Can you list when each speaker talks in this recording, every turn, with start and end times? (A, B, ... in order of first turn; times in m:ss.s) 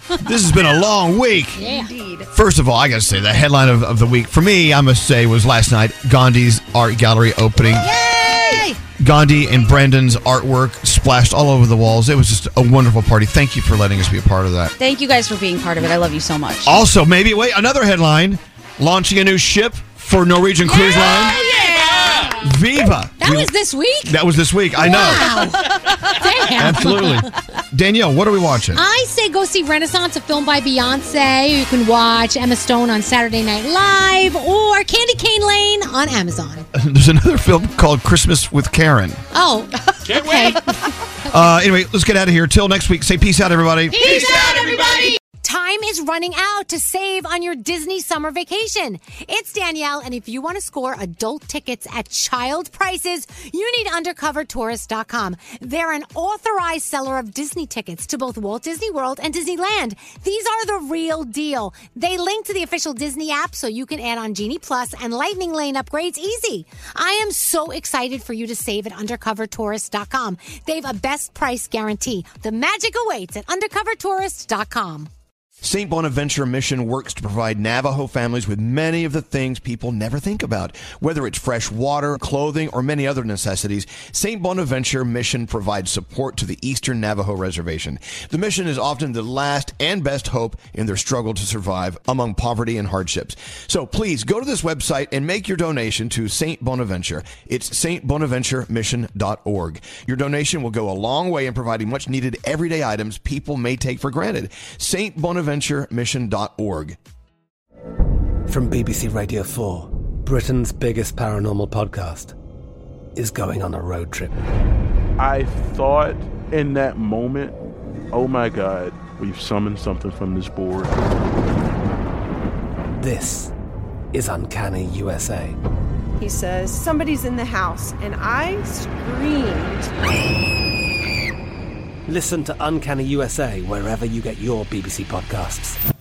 0:00.2-0:01.6 A
0:01.6-0:01.9 B
0:01.6-0:02.2 C
0:02.3-0:07.9 A
0:07.8-0:08.7 B
0:09.0-0:14.7 A
0:14.8-0:16.8 C
0:16.6-0:21.4 A
0:20.7-0:24.2 B
0:21.4-0:22.1 C
0:22.4-0:23.5 A
0:24.0-0:25.4 A
0:24.8-0:27.3 B
0:26.6-0:28.8 A
0:28.7-0:36.6 B
0:36.7-0:39.2 A
0:39.3-0:40.6 B
0:41.3-0:44.3 A
0:43.9-1:15.1 B
1:15.6-1:47.0 A
1:48.5-1:52.3 D
1:53.2-1:54.3 D
1:55.2-1:57.5 E
1:58.1-2:01.0 E
2:03.0-2:03.5 D
2:04.1-2:05.5 D
2:06.2-2:09.9 F
2:12.1-2:15.8 D